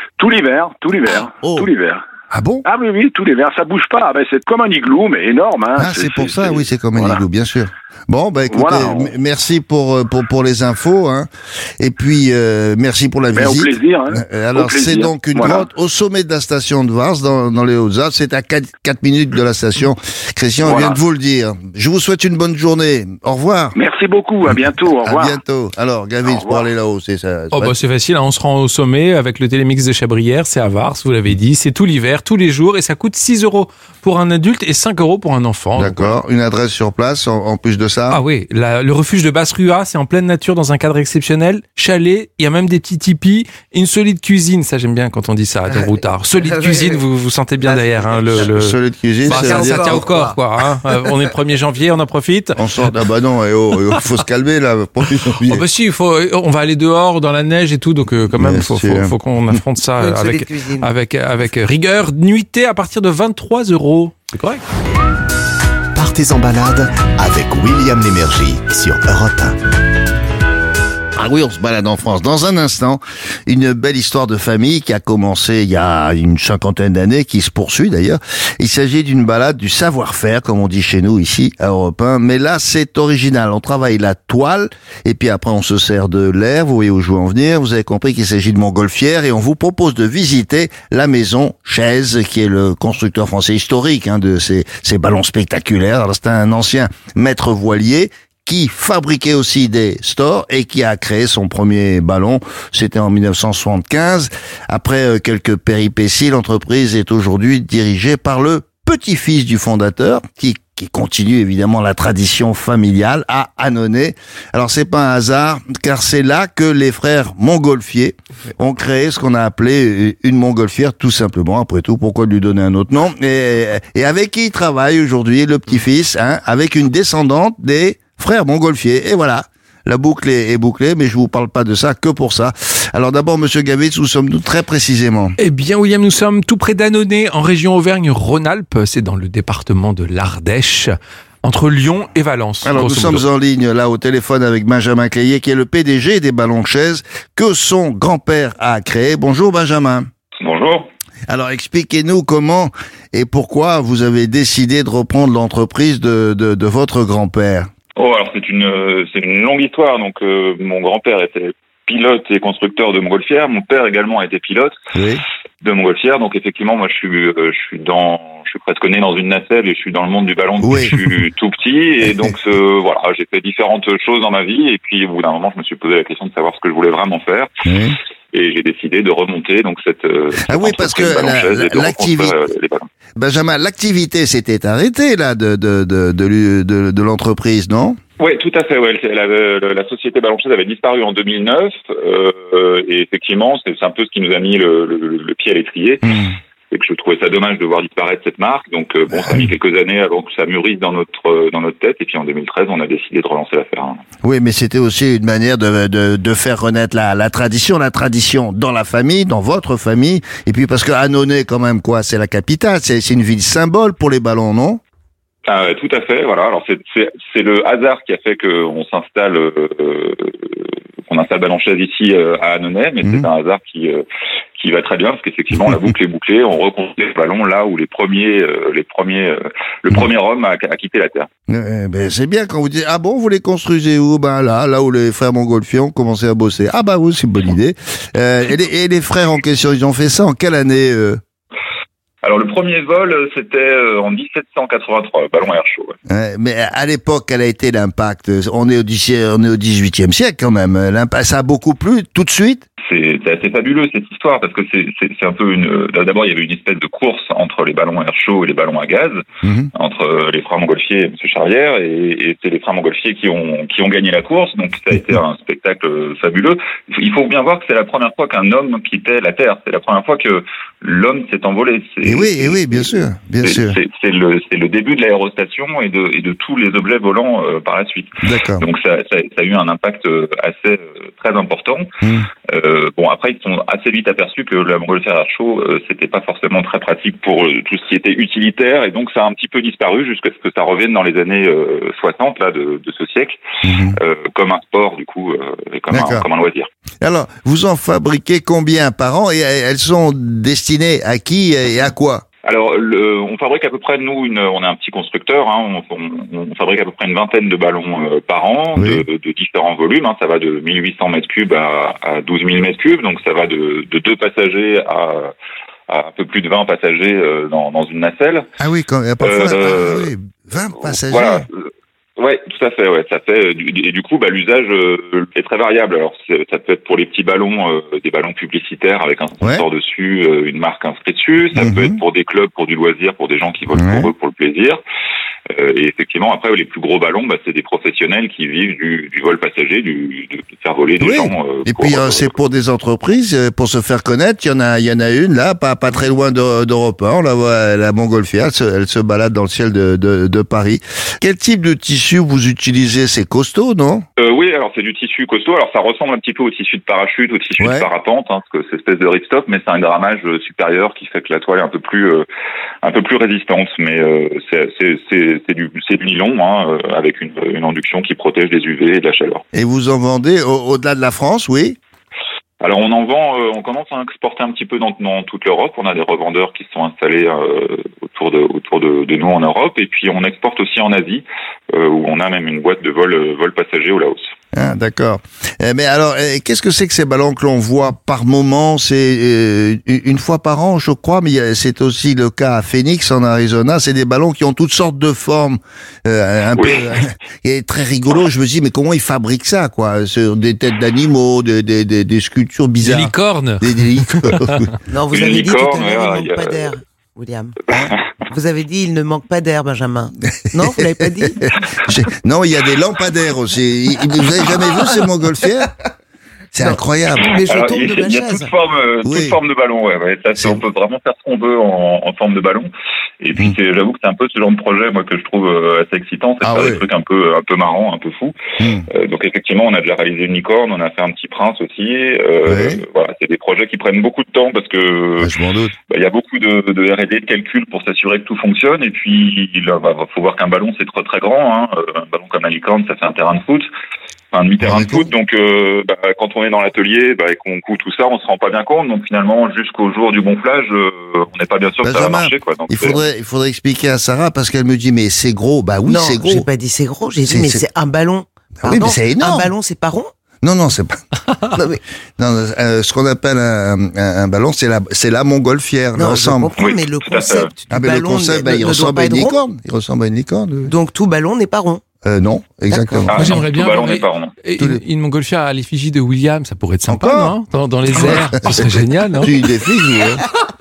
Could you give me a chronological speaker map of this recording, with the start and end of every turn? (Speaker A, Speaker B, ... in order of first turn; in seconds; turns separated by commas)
Speaker A: 0.2-2.0, Speaker B: 1.4-1.7, Speaker B: 2.3-2.6, Speaker A: 2.6-7.2, Speaker B: 5.8-23.8, Speaker A: 8.5-9.1, Speaker A: 13.3-15.7, Speaker A: 20.6-21.0, Speaker A: 23.7-25.4, Speaker B: 25.0-27.7, Speaker A: 26.2-26.6, Speaker C: 27.5-36.1, Speaker B: 35.8-38.2, Speaker C: 38.1-48.8, Speaker D: 46.4-47.0, Speaker D: 47.6-48.5, Speaker B: 48.3-50.1, Speaker D: 49.2-50.4, Speaker C: 49.3-52.6, Speaker B: 52.6-55.6, Speaker C: 55.5-64.6, Speaker B: 58.3-59.5, Speaker D: 60.0-60.9, Speaker E: 65.9-69.6, Speaker B: 71.2-135.3, Speaker C: 135.4-143.2, Speaker B: 142.6-150.1, Speaker F: 150.4-150.9, Speaker B: 151.3-157.7, Speaker F: 158.0-164.7, Speaker B: 164.9-165.2, Speaker F: 165.6-177.5, Speaker B: 170.6-171.2, Speaker B: 177.7-178.0, Speaker F: 178.3-182.8, Speaker B: 180.5-182.3, Speaker B: 183.2-188.0, Speaker F: 188.2-196.2, Speaker B: 196.0-196.3, Speaker F: 196.7-204.0, Speaker B: 204.2-214.8, Speaker F: 215.4-224.0, Speaker F: 224.6-231.3, Speaker B: 231.5-241.2, Speaker F: 242.2-245.9, Speaker B: 246.1-252.6, Speaker F: 252.8-259.2, Speaker B: 259.4-259.7, Speaker F: 259.7-281.9, Speaker B: 272.0-273.8, Speaker B: 278.2-278.6, Speaker B: 282.0-282.3, Speaker F: 282.5-293.4, Speaker B: 293.6-294.0, Speaker F: 293.9-296.7, Speaker B: 295.9-296.2, Speaker B: 297.0-302.2, Speaker F: 302.4-315.3, Speaker B: 308.8-309.0, Speaker F: 315.9-318.5, Speaker B: 318.6-321.4, Speaker F: 319.2-320.1, Speaker F: 320.8-334.8, Speaker B: 331.6-332.0, Speaker B: 333.7-334.1, Speaker F: 335.5-342.4, Speaker B: 341.0-354.0, Speaker F: 354.2-362.2, Speaker B: 357.6-357.9, Speaker F: 362.8-369.4, Speaker B: 369.5-371.8, Speaker F: 372.6-384.3, Speaker B: 384.5-404.7, Speaker F: 396.6-396.9, Speaker C: 402.8-403.7, Speaker C: 404.3-404.6, Speaker D: 404.9-407.6, Speaker F: 405.1-406.7, Speaker D: 408.3-411.5, Speaker B: 410.4-415.7, Speaker D: 414.6-414.9, Speaker B: 416.5-417.4, Speaker D: 416.6-418.5, Speaker F: 417.4-428.3, Speaker B: 419.0-419.4, Speaker B: 420.4-420.6, Speaker B: 426.4-426.9, Speaker B: 428.6-428.9, Speaker F: 428.9-435.3, Speaker B: 432.4-432.8, Speaker B: 435.2-435.7, Speaker F: 435.9-443.7, Speaker F: 444.3-453.0, Speaker B: 444.6-445.1, Speaker B: 451.8-456.4, Speaker D: 455.9-460.1, Speaker B: 457.3-457.6, Speaker B: 458.6-459.5, Speaker B: 460.4-461.0, Speaker D: 461.5-461.8, Speaker B: 462.2-466.5, Speaker D: 465.9-469.3, Speaker F: 466.6-467.5, Speaker B: 467.7-470.7, Speaker D: 470.7-471.8, Speaker B: 472.0-473.4, Speaker D: 472.7-473.1, Speaker F: 473.1-474.3, Speaker C: 473.1-479.3, Speaker B: 476.9-480.2